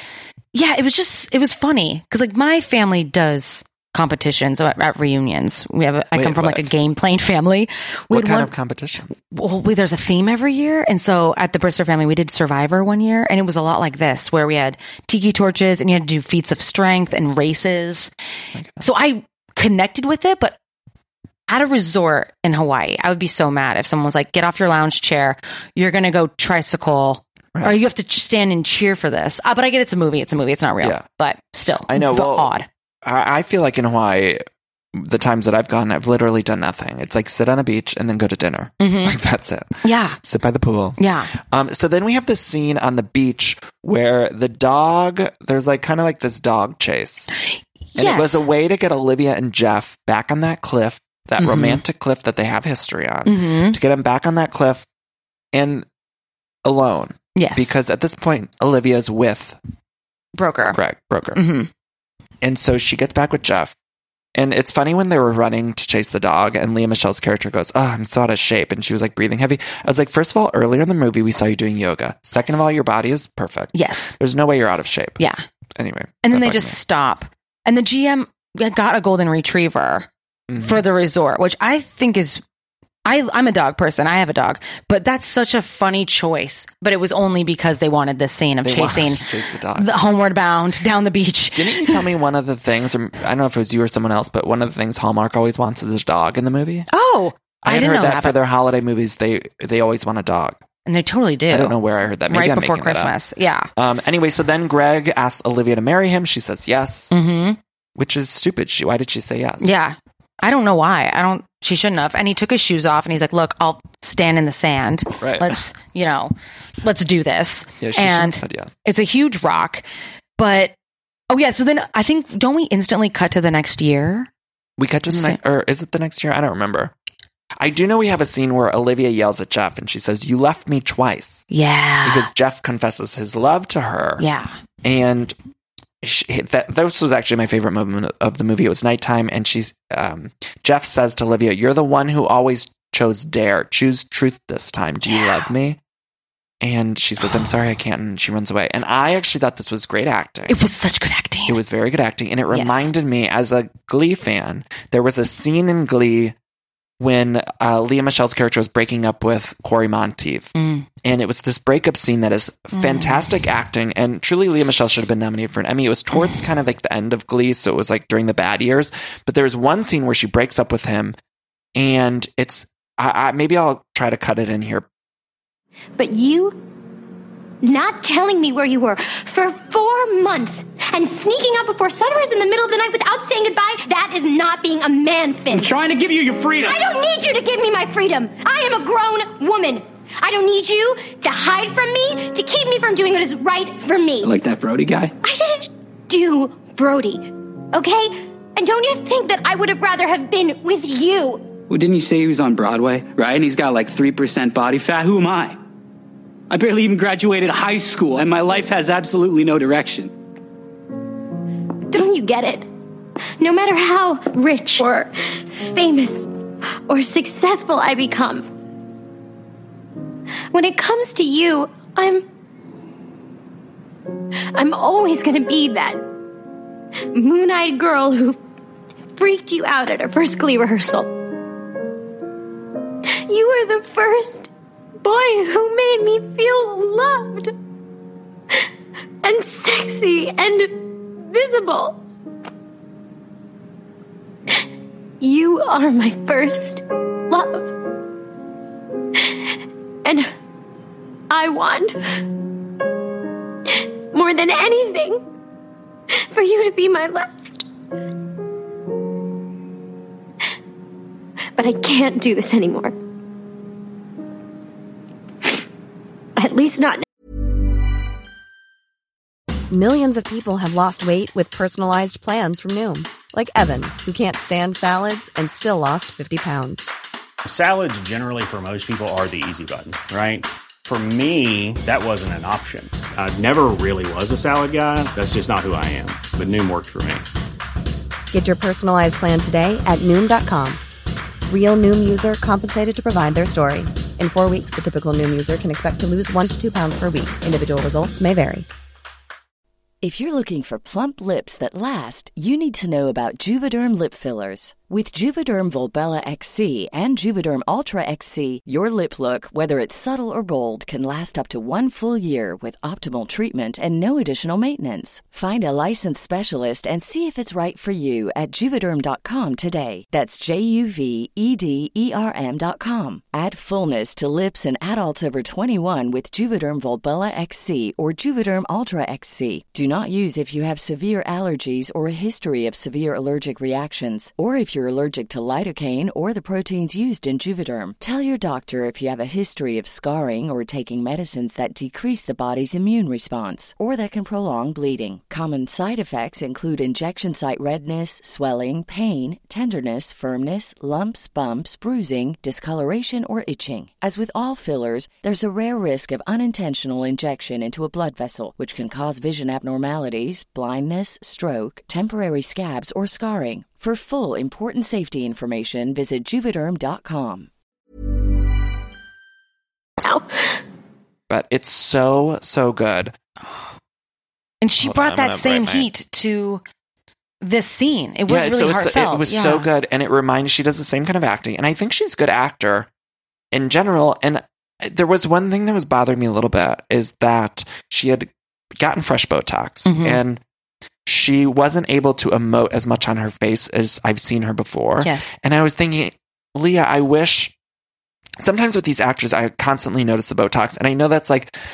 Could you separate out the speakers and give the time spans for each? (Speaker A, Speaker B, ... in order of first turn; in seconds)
Speaker A: 0.5-8.5, 9.2-18.1, 18.8-20.6, 21.5-32.7, 38.8-39.2, 39.8-40.2, 41.0-41.3, 47.5-48.4, 51.4-51.8, 53.2-53.8, 57.4-57.7, 60.3-60.8, 61.3-61.7, 73.7-74.2, 76.2-80.1, 80.6-82.4, 83.0-92.0, 96.9-98.4, 100.8-101.8, 102.3-103.7, 107.1-107.6, 109.6-119.8, 120.4-120.7, 121.3-124.3, 125.1-125.4, 131.5-132.3, 134.2-134.5, 145.1-145.5, 150.5-151.6, 152.5-152.9, 160.6-160.9, 162.7-163.2, 374.6-376.6, 377.4-379.7, 389.9-390.2, 395.0-395.3
Speaker B: 6.1-6.7, 8.1-9.2, 18.5-18.9, 31.9-32.5, 33.0-34.4, 34.9-47.3, 48.0-54.8, 55.5-55.9, 56.6-59.6, 60.6-61.4, 62.4-63.7, 64.3-75.2, 75.8-76.8, 80.5-80.8, 88.6-90.0, 91.5-96.9, 97.6-100.6, 101.5-103.1, 103.8-107.1, 108.0-109.7, 115.2-115.6, 117.8-118.7, 124.8-126.9, 127.6-131.4, 132.0-134.2, 134.8-135.3, 136.0-145.8, 146.6-150.6, 151.5-156.3, 157.0-160.5, 161.0-171.2, 171.8-174.8, 371.3-373.1, 374.8-375.9, 378.3-382.9, 383.5-390.4, 391.1-397.5, 398.4-401.5
Speaker C: 176.0-176.6, 177.6-185.7, 186.6-194.4, 195.2-201.5, 211.9-212.7, 213.4-216.3, 216.9-218.5, 220.5-222.2, 224.5-226.1, 227.1-228.4, 229.2-231.1, 233.2-234.5, 235.0-237.5, 239.2-242.0, 245.2-247.7, 251.3-251.9, 254.1-255.2, 256.2-257.7, 261.6-262.9, 266.4-267.0, 370.0-370.6
Speaker D: 185.5-186.8, 194.2-195.1, 201.7-205.6, 206.5-210.1
Speaker E: 269.7-276.9, 288.3-290.8, 291.5-298.6
Speaker F: 277.4-287.2
Speaker G: 300.0-367.5